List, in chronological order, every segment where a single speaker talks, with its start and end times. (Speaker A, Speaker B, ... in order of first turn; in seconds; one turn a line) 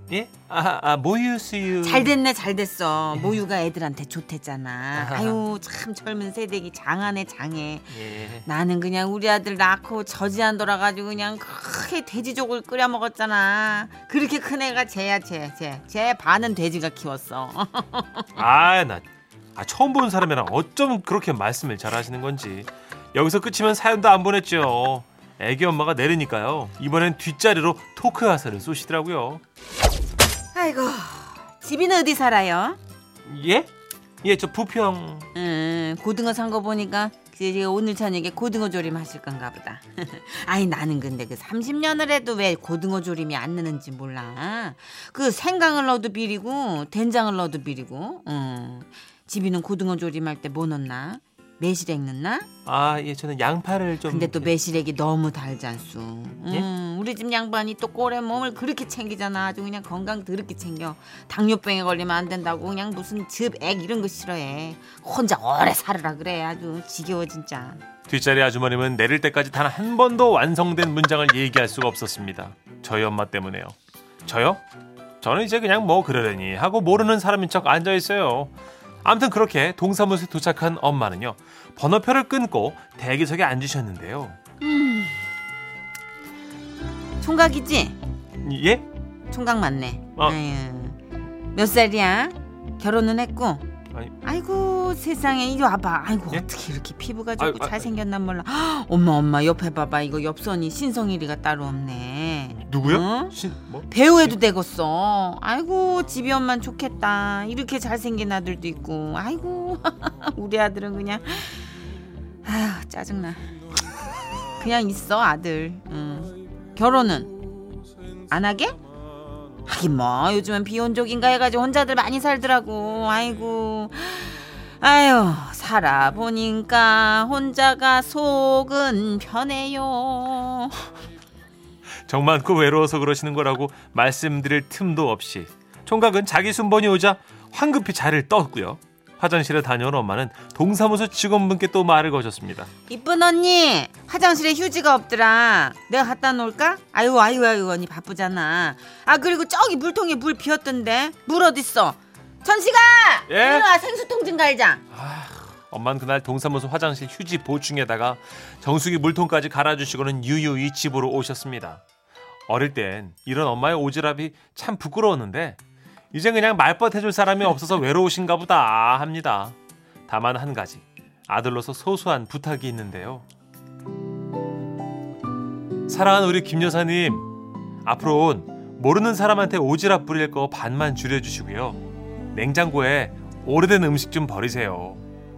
Speaker A: 0.1-2.1
Speaker B: 1.8-18.4
Speaker A: 5.0-5.4
Speaker A: 7.9-8.5
Speaker A: 18.4-19.1
Speaker A: 19.6-29.4
Speaker B: 30.5-32.8
Speaker A: 33.3-33.7
Speaker A: 34.2-35.3
Speaker B: 35.3-52.5
Speaker A: 52.7-54.5
Speaker B: 54.0-67.8
Speaker A: 68.1-73.8
Speaker A: 74.3-74.6
Speaker A: 75.2-84.4
Speaker B: 84.6-85.2
Speaker B: 87.2-88.0
Speaker A: 88.4-88.8
Speaker B: 89.3-91.0
Speaker B: 91.5-93.7
Speaker B: 94.2-111.8
Speaker A: 97.4-97.9
Speaker A: 102.5-104.4
Speaker B: 112.4-113.5
Speaker B: 114.5-117.3
Speaker B: 118.3-118.8
Speaker B: 119.7-130.8
Speaker A: 132.1-142.7
Speaker B: 142.9-154.8
Speaker A: 153.3-153.7
Speaker A: 154.9-161.8
Speaker A: 162.5-165.6
Speaker A: 166.1-169.6
Speaker A: 170.1-173.2
Speaker A: 175.9-177.3
Speaker A: 177.8-185.0